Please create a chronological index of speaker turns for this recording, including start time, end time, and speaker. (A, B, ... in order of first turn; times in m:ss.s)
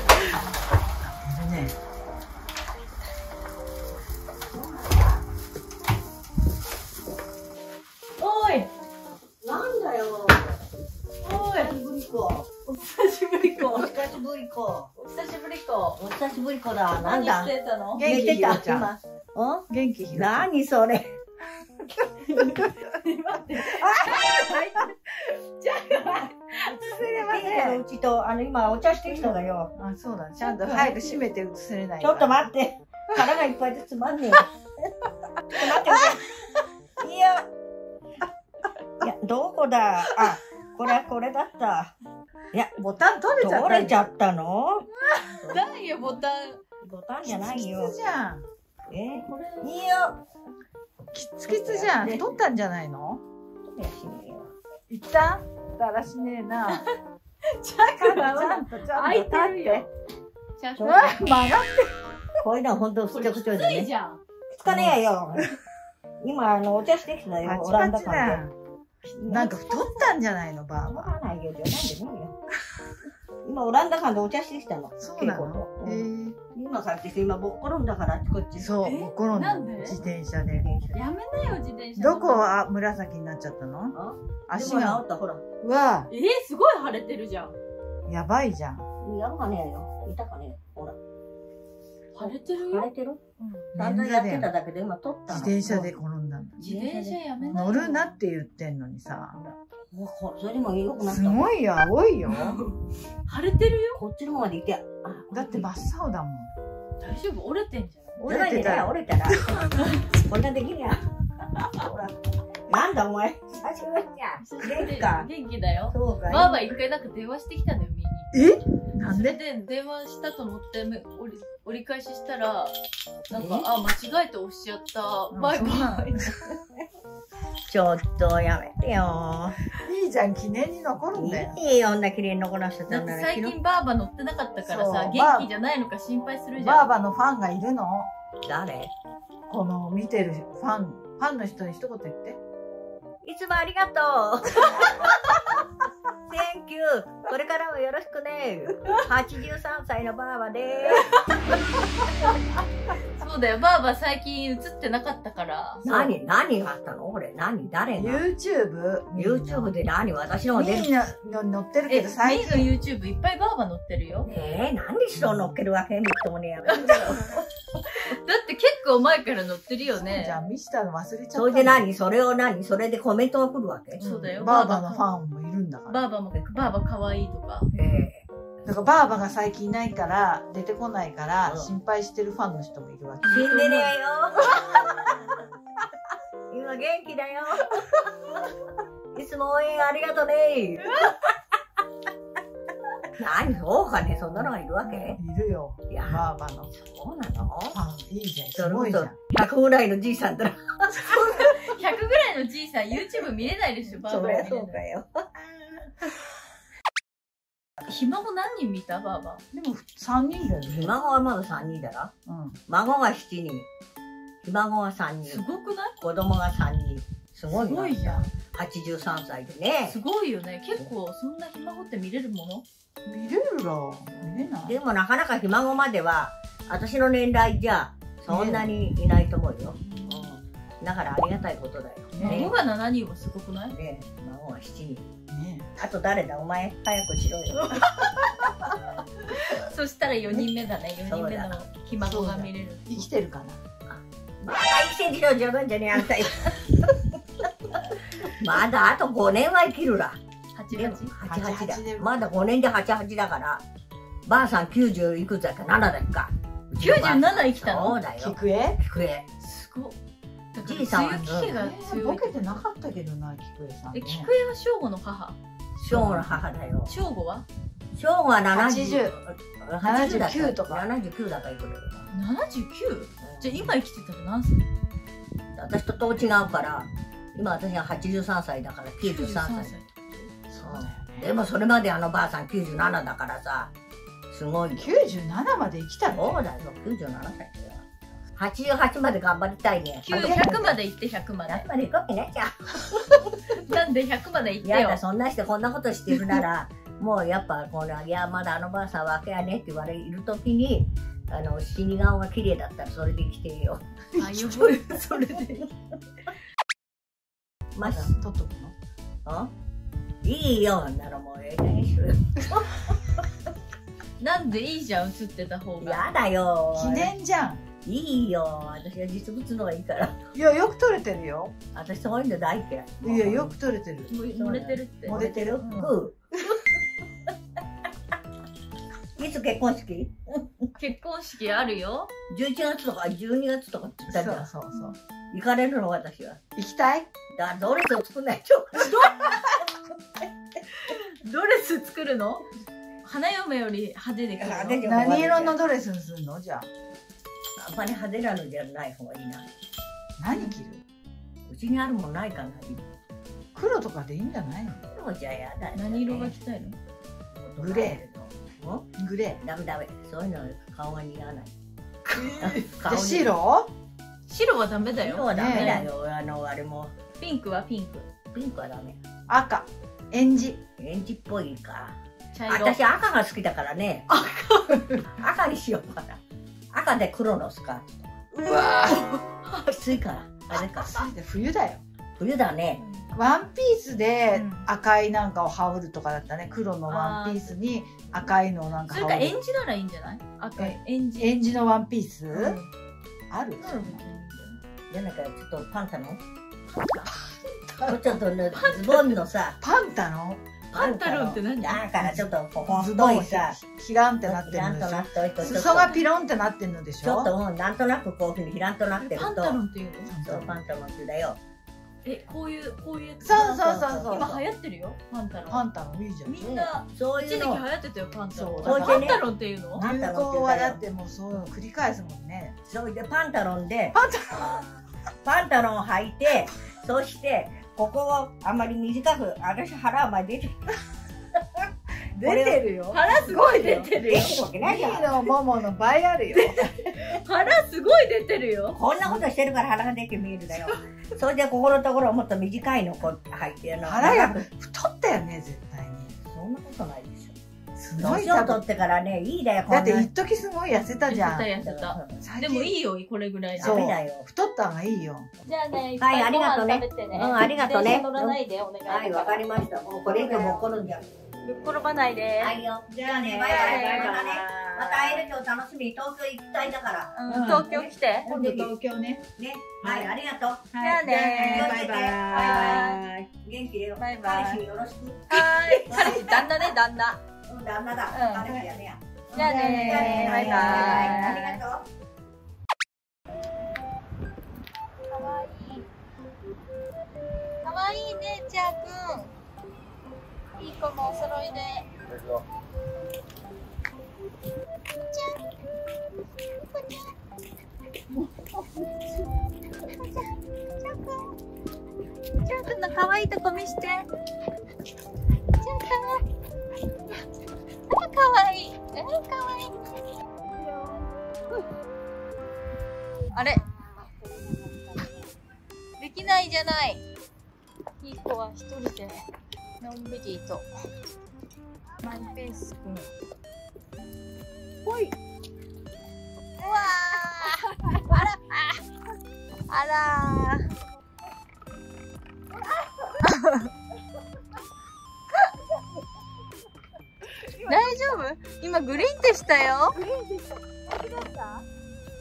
0:01.2-0:01.7 A
0:04.5-0:05.2 B
0:08.2-0:08.7 C
0:09.4-0:10.5 B
0:11.2-0:11.7 C
0:11.5-0:12.5 B
0:12.7-0:14.0 C
0:13.6-0:14.9 B
0:15.0-0:16.0 C
0:16.0-0:21.1 B
0:17.0-0:18.0 C
0:17.9-0:19.0 A
0:19.7-0:20.5 A
0:22.2-0:26.8 C
0:23.6-0:24.2 B
0:26.7-0:27.8 A
0:27.1-0:29.7 B
0:29.1-0:32.4 A
0:30.4-0:31.3 C
0:32.0-0:34.5 B
0:35.5-0:36.2 B
0:37.0-0:37.5 B
0:39.0-0:41.9 B
0:42.8-0:44.0 A
0:43.4-0:46.2 B
0:45.0-0:46.6 C
0:46.8-0:48.0 B
0:47.2-0:48.4 A
0:48.9-0:50.2 B
0:49.1-0:49.8 C
0:51.1-0:53.2 A
0:51.4-0:52.4 B
0:53.6-0:54.5 B
0:54.9-0:56.8 A
0:56.7-0:56.9 C
0:57.5-0:59.9 C
0:58.0-0:59.9 A
1:00.6-1:01.3 C
1:00.8-1:01.2 B
1:00.8-1:02.0 A
1:02.4-1:03.9 B
1:03.1-1:04.2 C
1:04.5-1:05.5 B
1:04.6-1:05.4 A
1:06.2-1:08.4 B
1:07.4-1:08.5 A
1:09.0-1:10.1 B
1:09.3-1:11.1 A
1:10.9-1:12.3 B
1:13.4-1:18.8 B
1:15.0-1:16.4 A
1:18.6-1:20.7 A
1:18.8-1:20.0 C
1:20.0-1:21.0 B
1:20.9-1:22.5 C
1:22.0-1:24.0 A
1:23.9-1:25.4 B
1:24.5-1:25.0 A
1:25.6-1:26.1 A
1:26.1-1:27.6 C
1:28.1-1:28.8 A
1:29.0-1:31.0 B
1:32.1-1:32.9 C
1:32.6-1:33.2 B
1:33.7-1:34.5 A
1:33.8-1:36.0 B
1:35.3-1:36.6 A
1:36.6-1:38.2 C
1:36.6-1:37.8 B
1:37.5-1:39.4 A
1:39.3-1:41.5 B
1:41.0-1:42.6 A
1:42.3-1:44.0 C
1:43.9-1:45.9 B
1:45.3-1:46.5 A
1:47.0-1:48.2 C
1:48.2-1:51.0 B
1:48.2-1:49.7 A
1:51.7-1:52.1 B
1:52.7-1:55.3 B
1:54.4-1:58.3 C
1:55.9-1:56.7 B
1:58.3-1:59.4 A
1:59.0-2:02.7 C
2:03.3-2:06.5 C
2:03.3-2:03.7 B
2:05.3-2:06.3 A
2:07.7-2:09.6 B
2:09.8-2:11.6 A
2:11.1-2:13.6 B
2:12.9-2:16.9 C
2:14.6-2:15.5 A
2:16.6-2:18.1 A
2:18.5-2:18.9 B
2:19.5-2:22.4 A
2:23.2-2:24.9 B
2:26.3-2:31.2 B
2:33.2-2:36.1 C
2:35.8-2:38.3 B
2:38.0-2:39.7 A
2:39.2-2:40.9 B
2:40.5-2:42.7 A
2:41.9-2:44.3 C
2:44.3-2:47.2 B
2:46.7-2:50.4 C
2:50.0-2:51.9 A
2:51.3-2:54.1 B
2:54.0-2:55.1 C
2:54.3-2:56.0 A
2:55.9-2:57.7 C
2:57.7-2:58.3 B
2:58.6-3:03.4 A
3:01.4-3:01.7 B
3:03.2-3:05.2 B
3:03.2-3:03.9 C
3:06.5-3:08.0 B
3:09.2-3:11.1 B
3:13.2-3:15.2 B
3:14.8-3:16.7 A
3:15.9-3:17.8 B
3:17.7-3:19.2 A
3:18.5-3:20.9 B
3:21.0-3:24.8 C
3:24.0-3:25.3 B
3:25.4-3:25.9 A
3:27.8-3:29.4 C
3:29.5-3:30.9 A
3:30.6-3:32.1 B
3:32.3-3:32.6 A
3:32.7-3:33.7 B
3:34.4-3:35.4 B
3:35.2-3:36.0 C
3:36.0-3:40.0 B
3:37.5-3:38.3 C
3:39.9-3:42.6 C
3:43.0-3:44.8 A
3:44.2-3:52.6 B
3:48.3-3:48.8 A
3:52.1-3:52.4 A
3:52.2-3:53.8 C
3:53.7-3:55.1 B
3:55.3-3:55.7 A
3:55.8-3:57.7 B
3:57.7-3:58.3 C
3:59.3-4:03.1 C
4:01.1-4:01.6 B
4:02.0-4:03.6 A
4:03.9-4:06.9 B
4:08.3-4:10.2 B
4:10.5-4:11.1 C
4:10.7-4:13.6 B
4:11.2-4:12.1 A
4:14.3-4:19.2 B
4:16.8-4:18.0 C
4:18.2-4:18.8 A
4:19.4-4:20.0 C
4:20.5-4:22.6 C
4:20.6-4:21.6 B
4:21.5-4:24.3 A
4:23.9-4:25.4 C
4:25.8-4:27.0 B
4:26.9-4:27.5 C
4:27.9-4:32.1 B
4:28.5-4:29.2 A
4:29.8-4:30.9 A
4:32.1-4:34.6 C
4:33.2-4:33.7 B
4:35.5-4:39.8 B
4:39.0-4:40.3 C
4:40.5-4:41.3 A
4:40.6-4:43.7 B
4:44.3-4:45.0 B
4:44.8-4:46.4 A
4:46.0-4:50.8 B
4:50.0-4:51.6 C
4:51.5-4:52.8 B
4:53.3-4:55.0 C
4:54.6-5:03.8 B
5:04.2-5:05.7 C
5:07.8-5:08.1 B
5:07.8-5:08.8 A
5:09.2-5:09.5 B
5:10.2-5:12.6 B
5:14.2-5:16.1 C
5:15.8-5:17.1 B
5:16.8-5:17.6 A
5:17.8-5:20.2 B
5:20.3-5:21.5 A
5:21.7-5:23.6 B
5:23.0-5:24.1 A
5:24.1-5:25.2 C
5:24.3-5:26.2 B
5:25.1-5:26.0 A
5:29.2-5:30.5 B
5:30.8-5:32.1 C
5:32.3-5:34.5 B
5:34.1-5:34.9 A
5:35.3-5:36.4 B
5:36.6-5:37.1 A
5:37.3-5:39.1 B
5:38.8-5:39.3 C
5:40.8-5:42.4 C
5:43.0-5:44.8 C
5:44.4-5:45.6 B
5:44.8-5:46.7 A
5:47.6-5:49.5 B
5:50.2-5:50.8 A
5:51.5-5:52.9 B
5:53.5-5:54.8 A
5:54.7-5:56.4 B
5:55.7-5:56.8 C
5:57.3-5:58.9 B
5:57.6-5:58.0 A
5:59.0-5:59.4 A
5:59.4-6:01.5 B
6:02.1-6:03.7 A
6:02.4-6:03.3 B
6:04.3-6:05.9 C
6:04.9-6:06.9 B
6:05.3-6:05.8 A
6:07.2-6:08.1 C
6:08.3-6:09.0 B
6:09.3-6:10.6 A
6:10.8-6:12.0 B
6:12.3-6:12.8 C
6:12.5-6:14.1 B
6:14.1-6:14.8 C
6:15.0-6:16.2 B
6:16.7-6:18.1 B
6:18.3-6:19.5 C
6:19.5-6:21.1 B
6:20.8-6:21.8 A
6:22.2-6:22.8 B
6:22.8-6:23.1 C
6:23.1-6:29.4 A
6:24.3-6:24.7 C
6:26.9-6:27.6 C
6:28.9-6:31.4 C
6:30.5-6:32.6 A
6:32.3-6:32.7 C
6:33.3-6:34.0 A
6:33.6-6:34.6 C
6:34.9-6:36.2 B
6:36.7-6:37.1 C
6:37.8-6:39.6 B
6:38.5-6:39.2 C
6:39.6-6:40.5 A
6:40.7-6:43.6 B
6:40.7-6:41.8 C
6:42.0-6:47.3 A
6:44.2-6:46.0 B
6:45.4-6:46.0 C
6:47.0-6:49.6 B
6:49.0-6:50.1 C
6:50.1-6:50.6 A
6:50.2-6:51.4 B
6:52.0-6:55.7 C
6:53.2-6:54.4 A
6:53.9-6:54.4 B
6:55.5-6:56.4 A
6:56.2-6:59.8 C
6:56.4-6:57.6 B
6:58.3-6:59.0 A
6:58.6-7:00.8 B
6:59.8-7:02.6 A
7:02.6-7:04.0 B
7:03.9-7:04.8 A
7:05.2-7:10.6 B
7:12.1-7:13.9 A
7:12.2-7:12.6 B
7:12.9-7:14.4 C
7:13.9-7:15.2 B
7:14.6-7:16.6 A
7:16.3-7:18.8 C
7:18.8-7:24.5 B
7:23.8-7:26.1 A
7:26.2-7:27.4 B
7:27.8-7:28.6 A
7:28.0-7:30.1 B
7:29.7-7:31.5 A
7:31.0-7:33.8 C
7:31.6-7:32.2 B
7:32.2-7:32.8 A
7:33.6-7:34.3 B
7:33.6-7:35.3 A
7:35.4-7:39.4 C
7:36.0-7:41.1 B
7:40.0-7:40.6 A
7:41.4-7:42.5 C
7:42.4-7:48.7 B
7:42.9-7:44.2 A
7:43.5-7:45.2 C
7:47.1-7:48.3 C
7:47.3-7:47.7 A
7:48.2-7:49.2 A
7:49.4-7:50.7 B
7:50.7-7:52.8 A
7:50.8-7:53.1 C
7:51.4-7:56.7 B
7:54.0-7:54.6 C
7:55.3-7:57.2 C
7:57.5-8:01.9 B
7:58.1-7:58.5 C
7:59.3-8:01.4 A
7:59.3-8:01.6 C
8:05.1-8:05.9 C
8:07.6-8:09.3 C
8:10.6-8:11.9 C
8:15.1-8:15.4 C
8:16.6-8:17.1 C
8:19.8-8:21.3 C
8:22.4-8:24.0 C
8:25.6-8:26.2 C
8:27.9-8:29.9 C
8:33.3-8:33.6 C
8:36.0-8:37.0 C
8:38.0-8:39.2 C
8:39.8-8:40.7 C
8:42.0-8:43.1 C
8:44.8-8:45.1 C
8:46.6-8:48.8 C
8:49.7-8:50.6 C
8:53.3-8:53.6 C
8:57.4-8:58.2 A
8:57.6-9:00.0 C
8:59.9-9:01.6 A